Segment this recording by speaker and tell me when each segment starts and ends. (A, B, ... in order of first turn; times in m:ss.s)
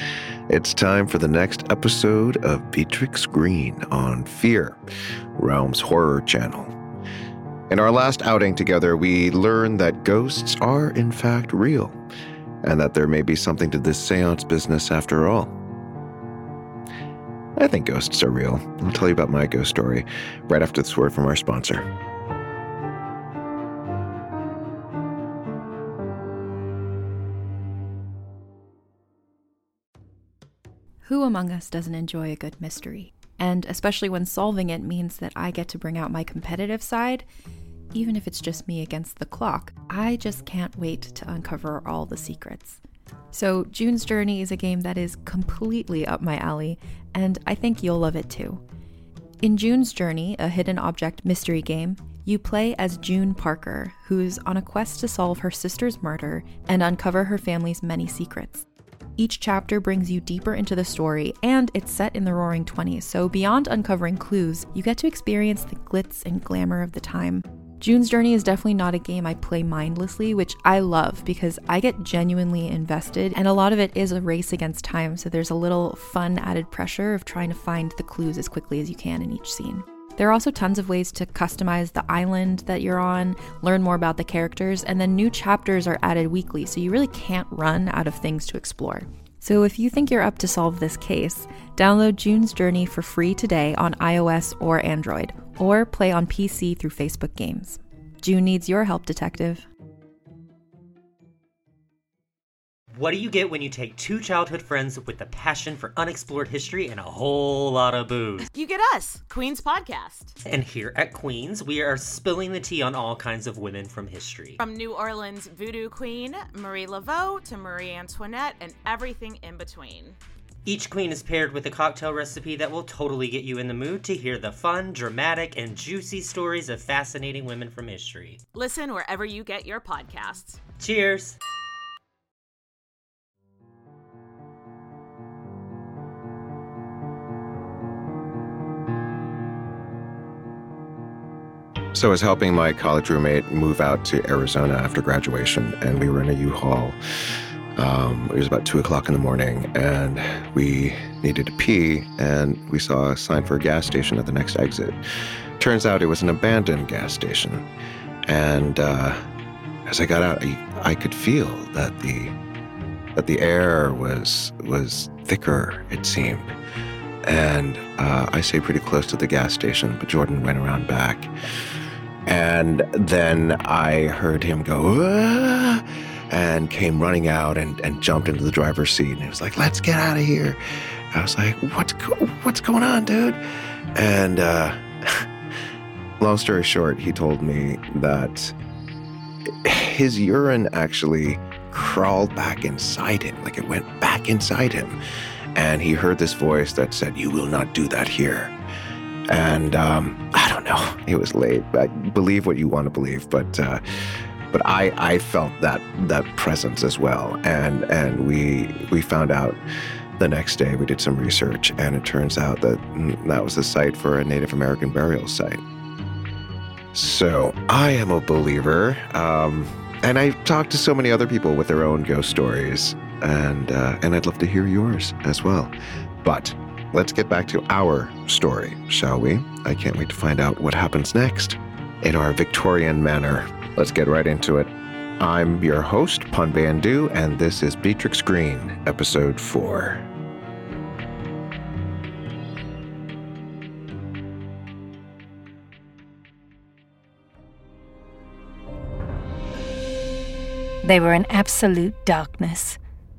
0:00.5-0:04.8 A
0:05.4-0:06.7 A
0:07.7-0:12.0 A
0:12.6-0:15.5 A
0:17.6-0:21.8 A
0:31.0-0:37.2 B
0:37.9-0:42.8 B
0:43.3-0:48.6 B
0:49.4-0:58.6 B
0:59.2-1:39.6 B
1:42.9-1:48.5 C
1:48.5-1:50.4 D
1:50.4-1:54.6 C
1:54.6-2:00.2 D
2:00.6-2:08.4 C
2:08.5-2:10.6 D
2:10.8-2:11.4 C
2:21.9-2:27.0 A
2:27.8-2:35.0 A
2:35.6-2:37.6 A
2:38.3-2:39.2 A
2:39.9-2:42.3 A
2:43.2-2:46.5 A
2:47.2-2:51.3 A
2:52.3-3:00.6 A
3:01.1-3:03.4 A
3:04.0-3:05.2 A
3:06.2-3:08.5 A
3:09.6-3:15.0 A
3:15.6-3:18.5 A
3:19.3-3:23.8 A
3:24.5-3:29.6 A
3:30.2-3:35.6 A
3:36.9-4:00.0 A
4:10.8-4:12.8 E